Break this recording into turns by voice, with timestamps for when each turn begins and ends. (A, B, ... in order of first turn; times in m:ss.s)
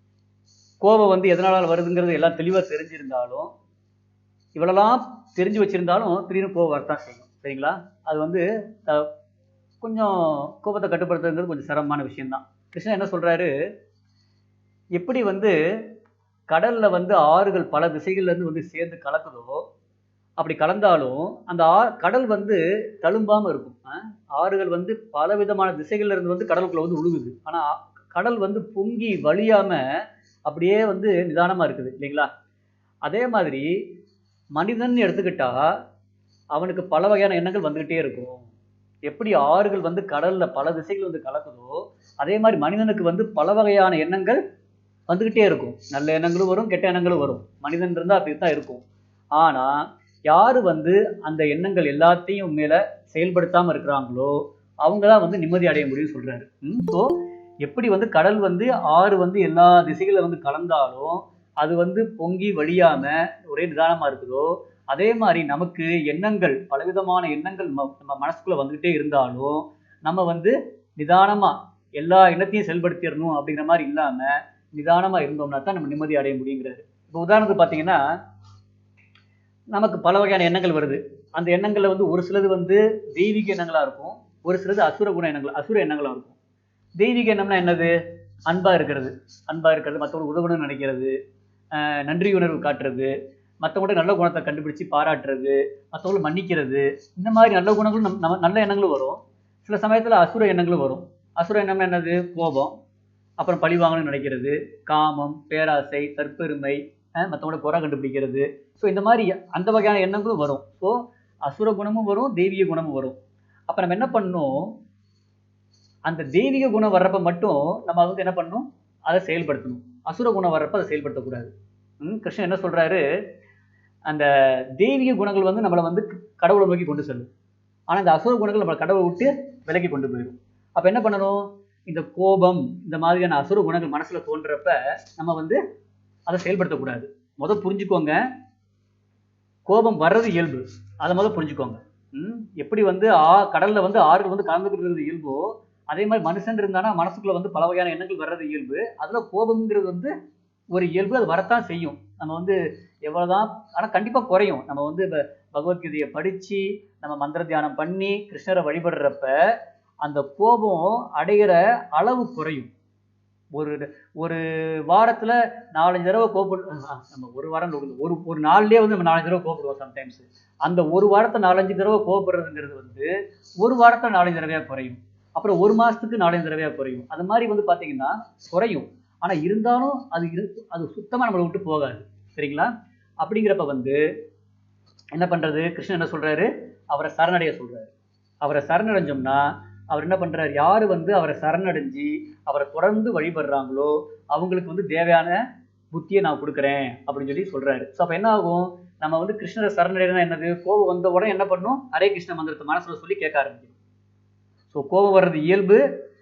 0:00.8-0:03.5 A
0:04.6-0:09.1 A
0:09.8-0:13.5 A
0:15.0-0:15.6 A
0:16.5-0:19.6 A
0:20.4-0:29.8 A
0:30.5-0:32.3 A
0:33.1-0:33.8 A
0:34.6-0:35.6 A
0:36.6-0:38.5 A
0:39.1-0:44.4 A
0:45.1-0:48.8 A
0:49.4-1:18.0 A
1:19.7-1:26.4 A
1:27.0-1:27.9 A
1:28.5-1:31.1 A
1:31.7-1:42.8 A
1:43.4-1:53.2 A
1:53.7-1:54.7 A
1:56.1-2:01.5 A
2:02.0-2:03.0 A
2:04.1-2:07.3 A
2:07.9-2:15.6 A
2:16.3-2:18.2 A
2:19.7-2:30.1 A
2:30.7-2:39.3 A
2:40.0-2:42.7 A
2:43.5-2:53.1 A
2:53.6-3:02.7 A
3:03.2-3:04.0 A
3:05.1-3:07.9 A
3:08.4-3:15.4 A
3:15.9-3:23.8 A
3:24.7-3:25.8 A